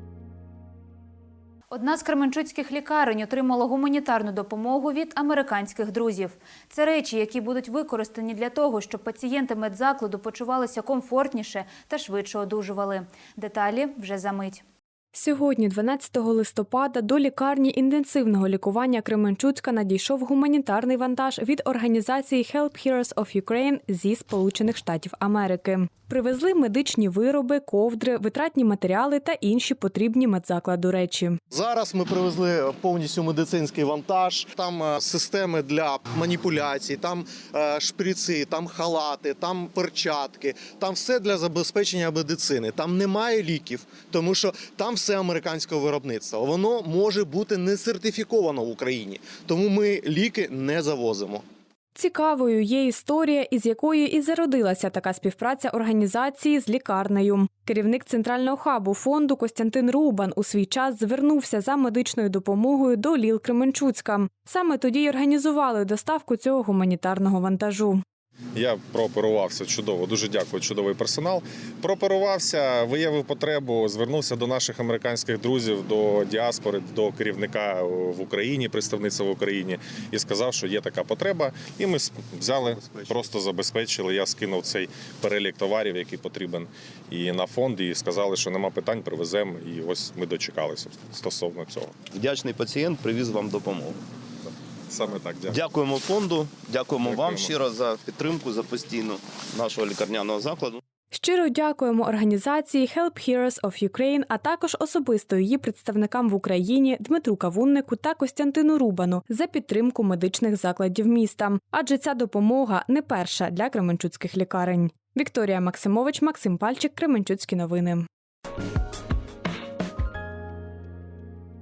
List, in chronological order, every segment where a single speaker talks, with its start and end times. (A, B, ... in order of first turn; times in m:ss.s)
0:01.7-0:14.6 A
0:15.1-0:31.4 B
0:31.5-0:51.4 C
0:51.9-1:08.0 B
1:08.5-1:32.0 D
1:22.6-1:23.2 E
1:32.1-1:34.0 E
1:34.9-1:35.6 D
1:35.5-1:40.8 E
1:37.0-1:37.5 D
1:41.1-1:58.1 B